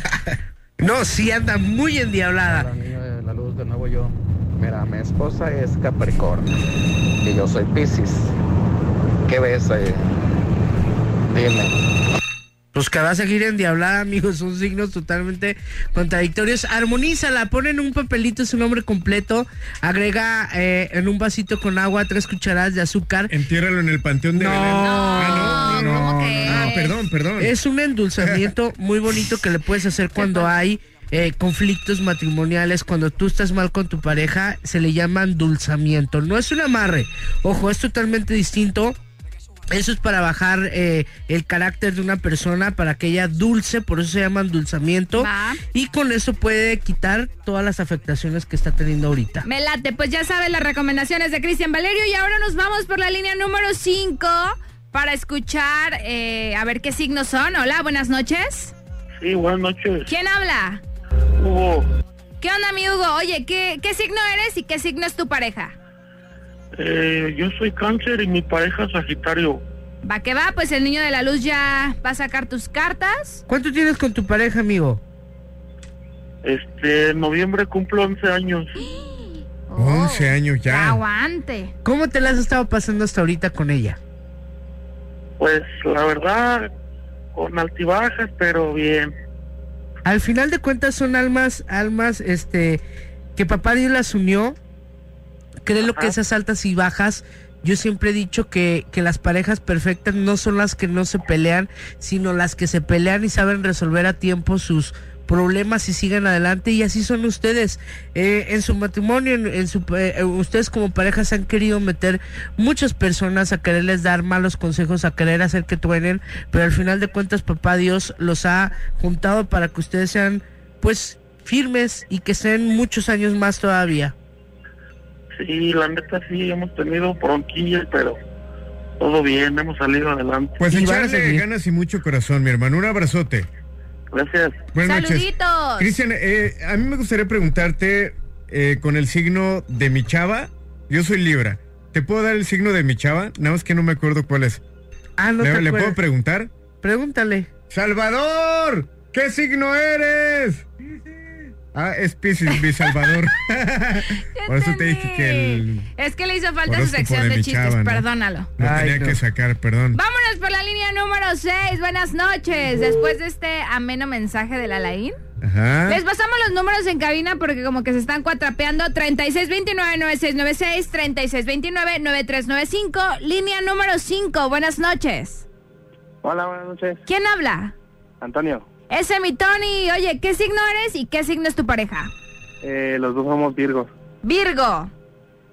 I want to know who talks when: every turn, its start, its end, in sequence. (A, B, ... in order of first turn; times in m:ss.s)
0:00.8-0:02.7 A
0:02.4-0:06.5 B
0:07.2-0:08.3 B
0:09.3-0:10.1 B
0:11.3-0:11.7 B
0:12.7-0:23.3 A
0:23.3-0:27.5 C
0:24.4-0:26.7 A
0:24.8-0:27.0 D
0:27.4-0:39.0 A
0:28.2-0:28.5 C
0:30.2-0:30.5 D
0:39.7-0:49.4 A
0:45.2-0:45.6 D
0:49.4-0:58.7 D
0:59.2-1:00.1 E
1:00.1-1:00.8 D
1:01.4-1:01.9 E
1:02.4-1:05.8 D
1:06.8-1:09.6 E
1:10.0-1:13.4 D
1:13.5-1:15.0 A
1:16.4-1:18.8 E
1:19.0-1:21.7 D
1:19.8-1:21.0 C
1:21.8-1:24.0 A
1:25.4-1:26.7 E
1:27.4-1:29.1 E
1:30.0-1:32.8 A
1:33.4-1:34.6 A
1:35.6-2:04.1 A
2:05.4-2:08.2 E
2:09.0-2:10.7 E
2:10.6-2:13.5 C
2:10.7-2:11.4 A
2:14.1-2:14.6 E
2:14.7-2:24.6 C
2:14.8-2:15.9 D
2:25.2-2:26.0 A
2:25.4-2:26.5 C
2:26.8-2:27.5 A
2:27.7-2:30.7 C
2:31.7-2:35.9 C
2:34.4-2:38.5 D
2:36.7-2:38.0 C
2:38.6-2:40.0 C
2:38.6-2:39.2 A
2:39.9-2:45.2 D
2:45.4-2:46.0 C
2:45.9-2:55.5 D
2:56.2-2:57.0 F
2:57.1-2:57.7 D
2:58.2-2:58.6 F
2:58.9-3:02.1 D
3:02.6-3:03.9 F
3:04.2-3:04.9 D